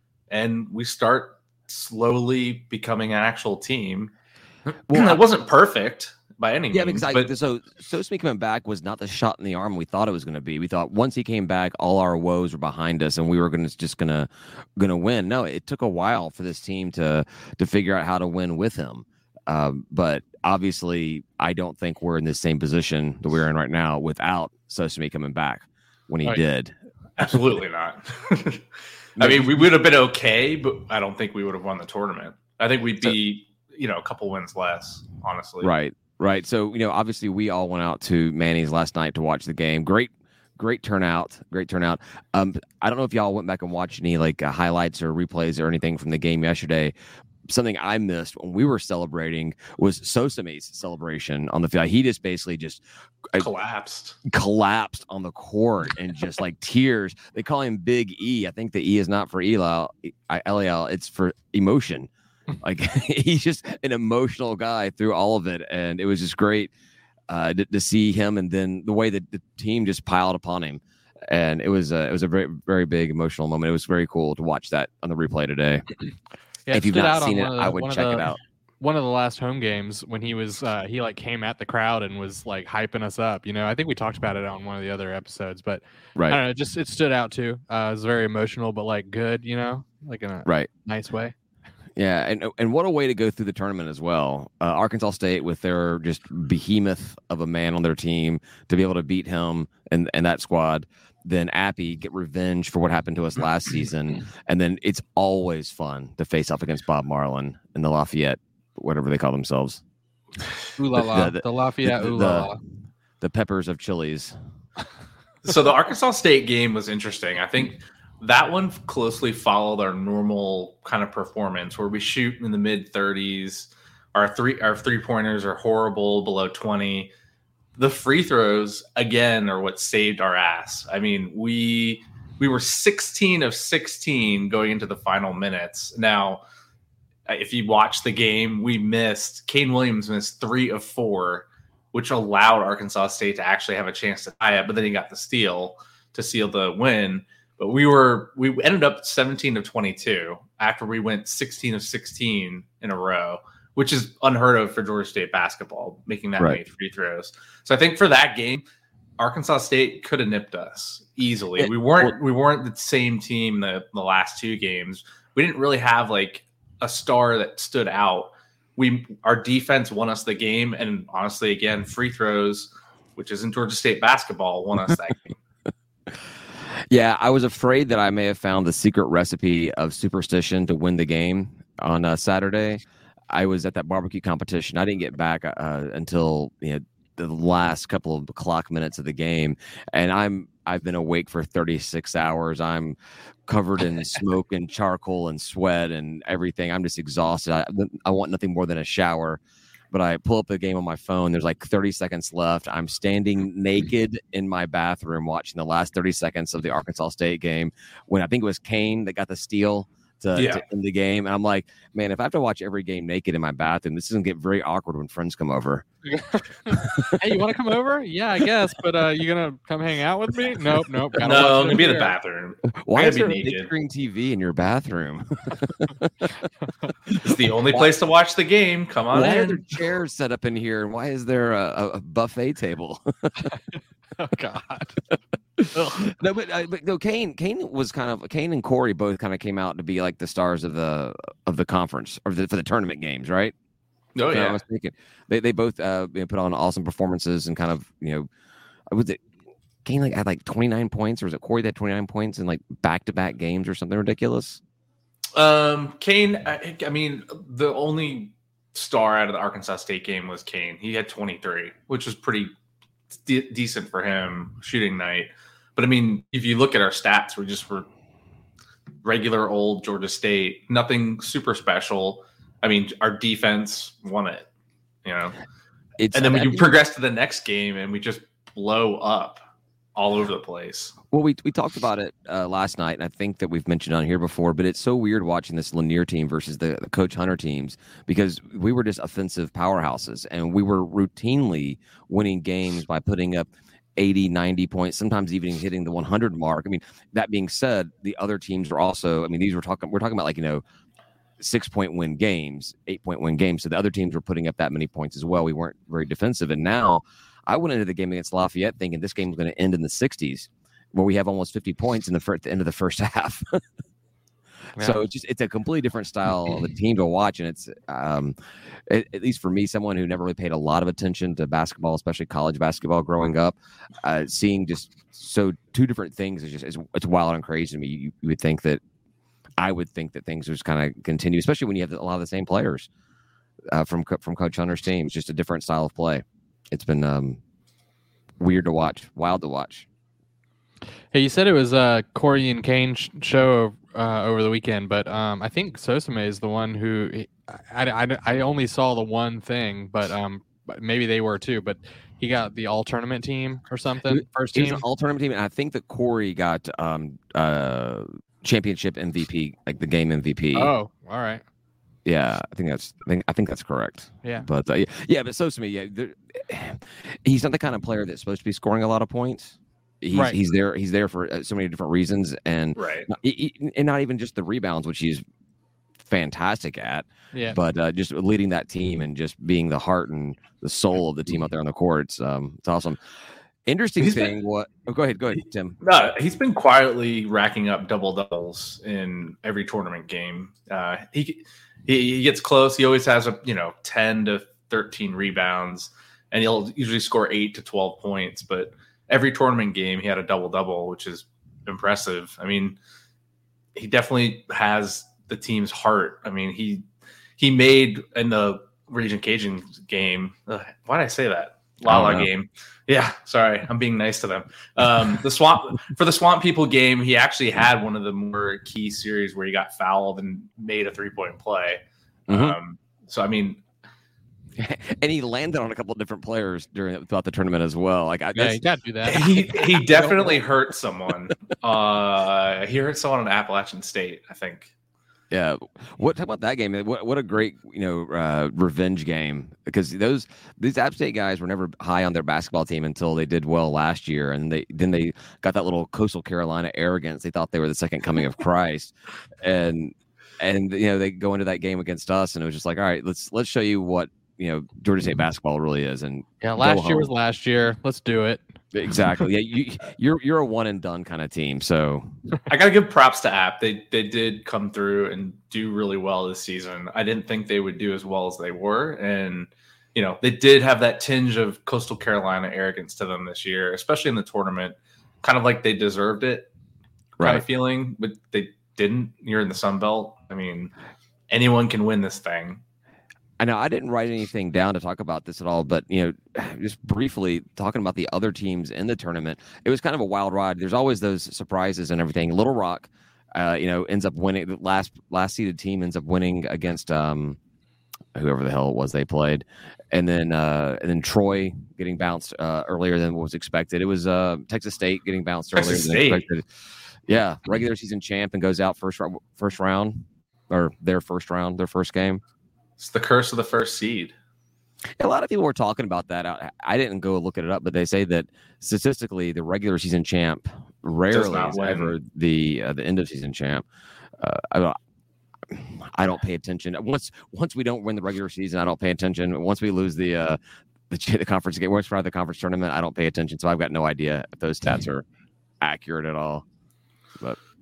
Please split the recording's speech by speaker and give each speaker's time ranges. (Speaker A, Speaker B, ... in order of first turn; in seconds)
Speaker A: 0.3-4.1, 4.9-7.3, 27.2-28.6, 29.2-35.7, 53.4-54.2, 115.4-127.1, 127.8-136.4, 137.3-158.6, 159.2-175.3, 210.3-210.6, 221.2-223.7, 227.2-229.6, 244.1-244.6, 255.3-262.5, 263.2-267.9, 269.0-274.5, 275.0-275.4, 276.1-279.4, 279.9-280.9, 372.8-373.1, 384.0-384.3, 385.8-402.8, 403.8-406.9, 407.4-423.6, 429.1-434.7, 462.5-476.5, 477.2-480.7, 481.3-482.6, 505.5-506.2, 512.8-514.1, 521.1-521.9
Speaker B: 4.9-5.2, 6.7-26.7, 29.2-29.7, 35.6-46.9, 47.5-53.5, 54.2-62.1, 62.6-66.7, 67.3-75.8, 76.7-78.4, 92.0-109.8, 110.9-112.5, 113.2-114.3, 161.6-162.1, 176.9-192.9, 193.5-199.4, 199.9-215.8, 216.7-217.4, 222.8-226.4, 227.1-227.9, 229.1-233.5, 235.6-243.5, 244.3-248.3, 248.9-249.2, 249.8-254.6, 276.0-276.7, 281.1-300.6, 301.4-313.6, 314.8-318.3, 318.9-328.8, 329.6-332.9, 333.7-337.4, 338.4-339.9, 354.1-360.7, 362.0-375.2, 376.0-383.0, 383.6-385.8, 411.8-412.3, 422.3-422.6, 424.6-430.4, 435.3-457.1, 458.7-462.1, 483.4-497.4, 498.1-506.5, 507.1-512.2, 515.0-523.6, 524.2-524.8, 525.5-530.4, 530.9-535.0, 535.6-536.5
Speaker C: 76.7-91.3, 110.8-112.6, 216.1-222.1, 233.5-235.0, 235.7-236.1, 341.1-354.8, 360.5-361.4, 364.2-364.5, 370.1-370.4, 377.3-377.6, 428.3-429.2, 456.4-458.5